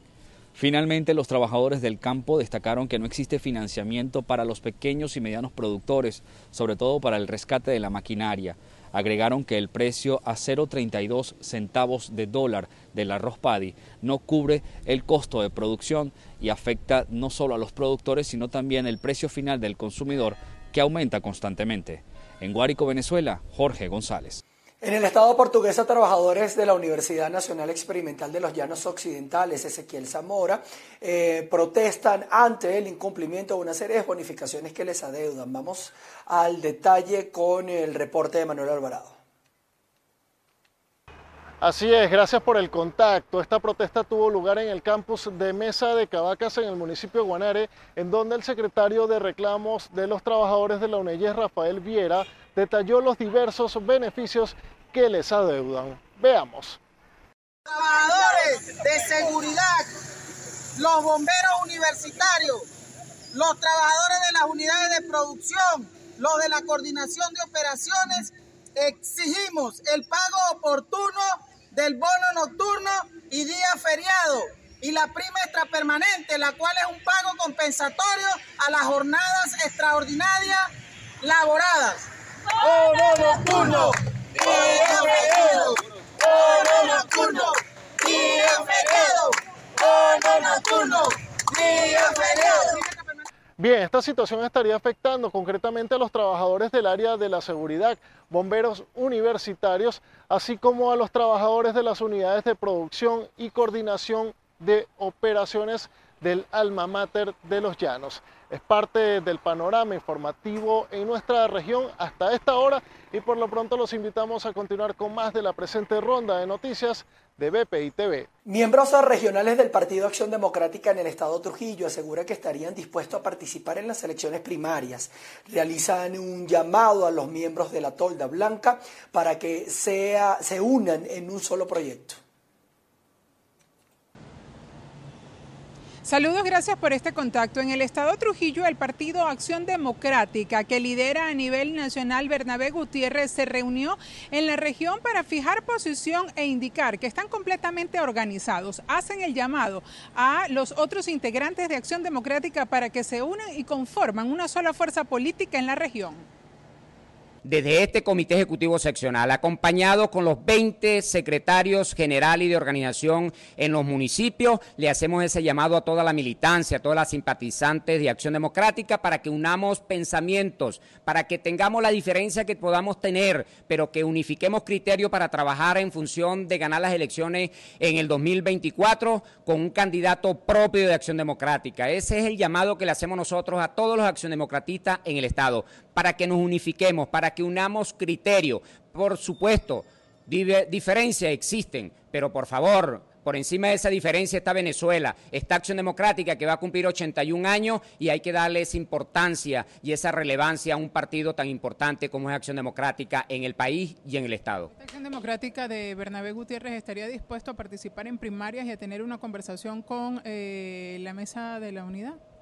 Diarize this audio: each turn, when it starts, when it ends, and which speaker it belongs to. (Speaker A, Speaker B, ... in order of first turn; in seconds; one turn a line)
Speaker A: 0.5-24.4
Speaker B: 24.8-39.2
Speaker C: 41.6-56.8
Speaker D: 57.7-59.9
Speaker D: 60.8-62.6
Speaker D: 63.3-80.7
Speaker D: 81.2-82.1
Speaker D: 82.6-93.0
Speaker C: 93.6-118.3
Speaker B: 118.5-132.2
Speaker E: 136.0-156.2
Speaker F: 157.4-204.7
Speaker E: 204.7-212.2